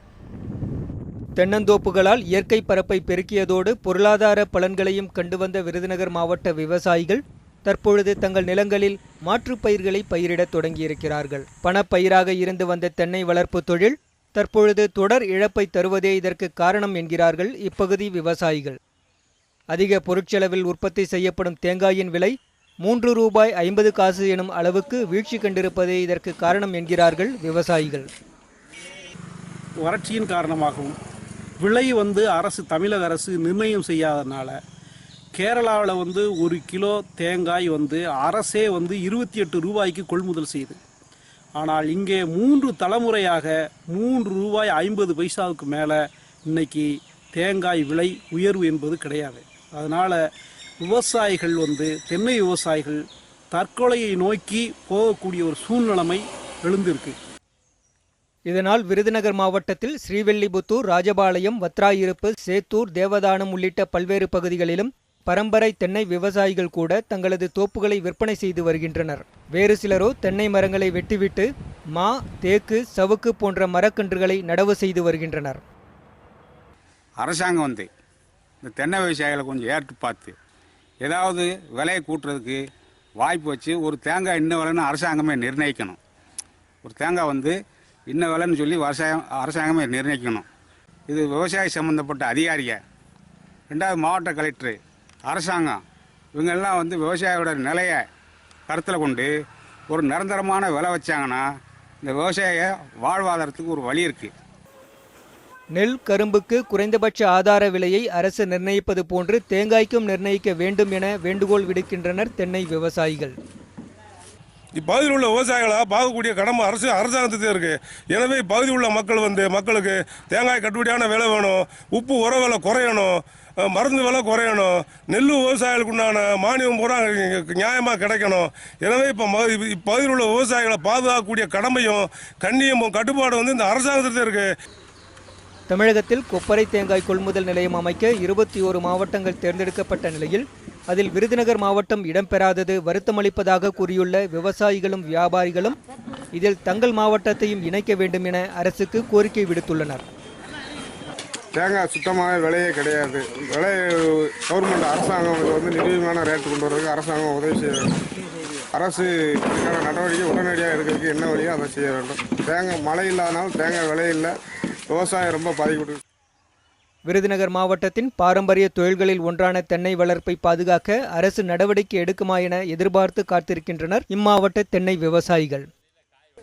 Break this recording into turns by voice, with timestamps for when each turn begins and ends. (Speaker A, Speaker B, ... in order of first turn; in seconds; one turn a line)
Speaker A: 1.4-18.8
Speaker A: 19.7-28.1
Speaker B: 29.8-31.0
Speaker B: 31.6-34.6
Speaker B: 35.4-40.8
Speaker B: 41.6-50.2
Speaker B: 50.8-57.1
Speaker A: 58.5-75.6
Speaker C: 77.2-77.9
Speaker C: 78.6-80.3
Speaker C: 81.0-82.6
Speaker C: 83.2-86.0
Speaker C: 86.8-87.5
Speaker C: 88.1-90.4
Speaker C: 91.1-92.8
Speaker C: 93.7-95.8
Speaker C: 96.4-98.0
Speaker C: 98.7-99.3
Speaker C: 99.9-101.4
Speaker C: 102.0-104.3
Speaker A: 105.7-113.3
Speaker D: 114.8-134.5
Speaker A: 135.7-145.8
Speaker A: 146.3-150.0
Speaker E: 151.5-158.0
Speaker E: 158.7-164.3
Speaker E: 164.9-166.0
Speaker A: 167.1-175.7